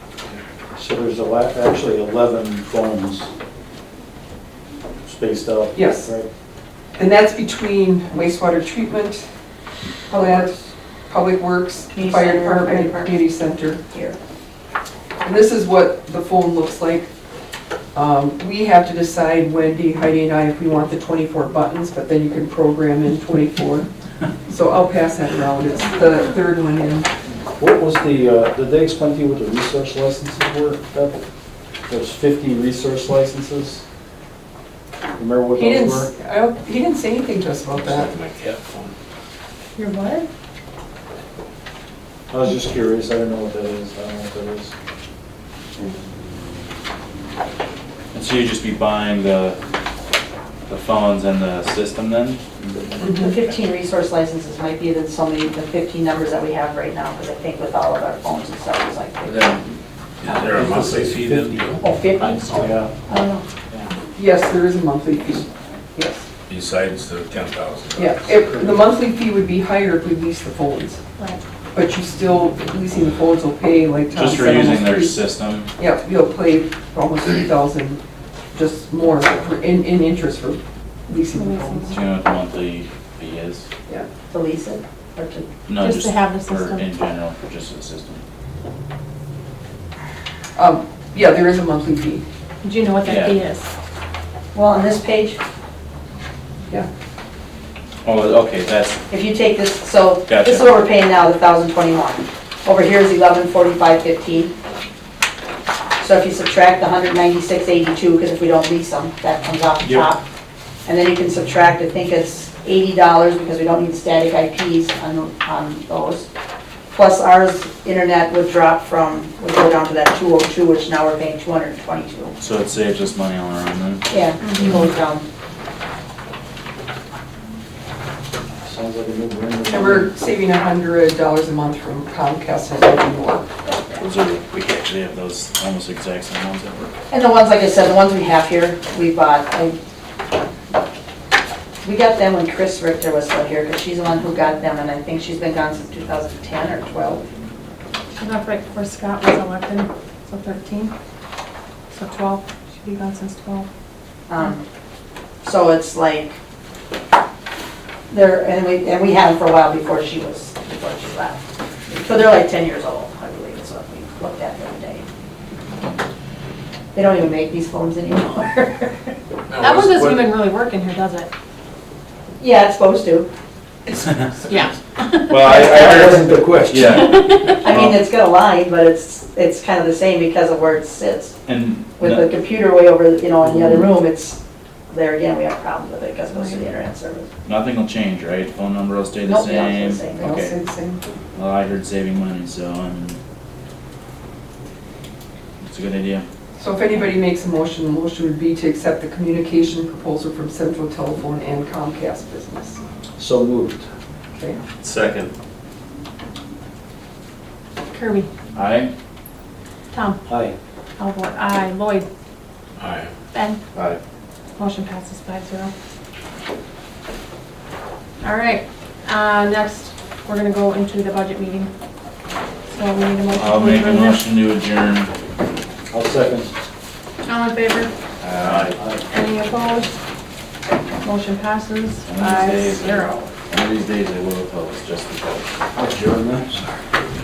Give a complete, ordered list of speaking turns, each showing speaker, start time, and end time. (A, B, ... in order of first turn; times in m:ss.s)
0:00.8-0:03.3 A
0:05.0-0:06.3 A
0:05.7-0:06.1 B
0:07.0-0:09.2 B
0:10.1-0:10.5 C
0:10.1-0:10.5 B
0:11.1-0:13.8 B
0:11.9-0:13.2 C
0:13.9-0:14.2 C
0:15.2-0:17.1 B
0:17.9-0:23.9 B
0:24.5-0:27.1 B
0:27.6-0:31.2 A
0:31.9-0:33.8 A
0:35.2-0:36.1 A
0:35.6-0:38.1 B
0:37.8-0:38.9 D
0:39.8-0:40.3 E
0:42.3-0:44.7 A
0:48.1-0:49.6 F
0:50.7-0:53.0 F
0:53.0-0:53.3 B
0:53.0-0:59.8 C
0:59.3-0:59.6 D
1:00.2-1:02.6 D
1:00.3-1:01.8 A
1:01.8-1:03.4 C
1:02.4-1:02.9 A
1:04.1-1:06.2 B
1:06.5-1:08.2 D
1:08.0-1:11.0 B
1:08.4-1:08.7 A
1:11.7-1:15.2 B
1:14.1-1:15.7 F
1:15.8-1:18.0 B
1:18.5-1:21.9 B
1:21.3-1:22.0 E
1:21.9-1:23.6 F
1:24.3-1:25.5 C
1:25.7-1:28.2 F
1:25.8-1:26.8 E
1:30.6-1:32.2 B
1:32.6-1:33.7 E
1:33.0-1:33.3 F
1:34.5-1:35.4 C
1:38.0-1:39.0 F
1:39.1-1:44.5 C
1:40.2-1:40.7 F
1:46.0-1:50.2 C
1:49.8-1:50.1 F
1:50.8-1:56.3 C
1:56.9-2:02.3 C
2:02.4-2:04.2 F
2:04.1-2:05.2 C
2:04.4-2:04.9 E
2:08.6-2:10.1 A
2:09.6-2:13.5 B
2:13.6-2:14.0 C
2:14.0-2:16.9 F
2:17.1-2:19.8 C
2:21.8-2:27.2 C
2:28.2-2:30.9 E
2:31.9-2:33.7 E
2:34.3-2:34.6 C
2:35.4-2:36.4 C
2:38.1-2:45.0 C
2:46.9-2:49.1 C
2:49.5-2:50.4 D
2:49.5-2:51.3 E
2:52.4-2:53.3 C
2:54.5-2:55.5 E
2:55.3-2:57.9 F
2:55.4-2:57.2 A
2:56.9-2:57.6 E
2:57.6-3:01.4 C
3:01.4-3:02.3 F
3:02.0-3:04.4 C
3:03.6-3:03.8 A
3:04.9-3:07.3 C
3:06.3-3:06.6 E
3:07.4-3:10.5 F
3:09.2-3:10.4 C
3:10.2-3:11.2 B
3:11.3-3:13.2 F
3:15.6-3:16.2 F
3:16.6-3:22.8 B
3:23.2-3:23.9 A
3:24.3-3:24.6 B
3:24.8-3:25.3 D
3:27.9-3:28.3 E
3:28.5-3:28.9 F
3:29.9-3:30.2 E
3:30.3-3:30.6 A
3:31.0-3:32.0 E
3:32.8-3:33.1 D
3:33.3-3:33.6 E
3:34.6-3:35.7 E
3:38.2-3:41.7 E
3:42.7-3:44.3 E
3:43.3-3:45.1 F
3:45.9-3:46.5 A
3:47.2-3:47.9 E
3:48.2-3:48.8 F
3:48.5-3:49.0 A
3:49.1-3:49.9 E
3:51.0-3:53.3 E
3:52.0-3:55.4 F
3:55.7-3:56.7 A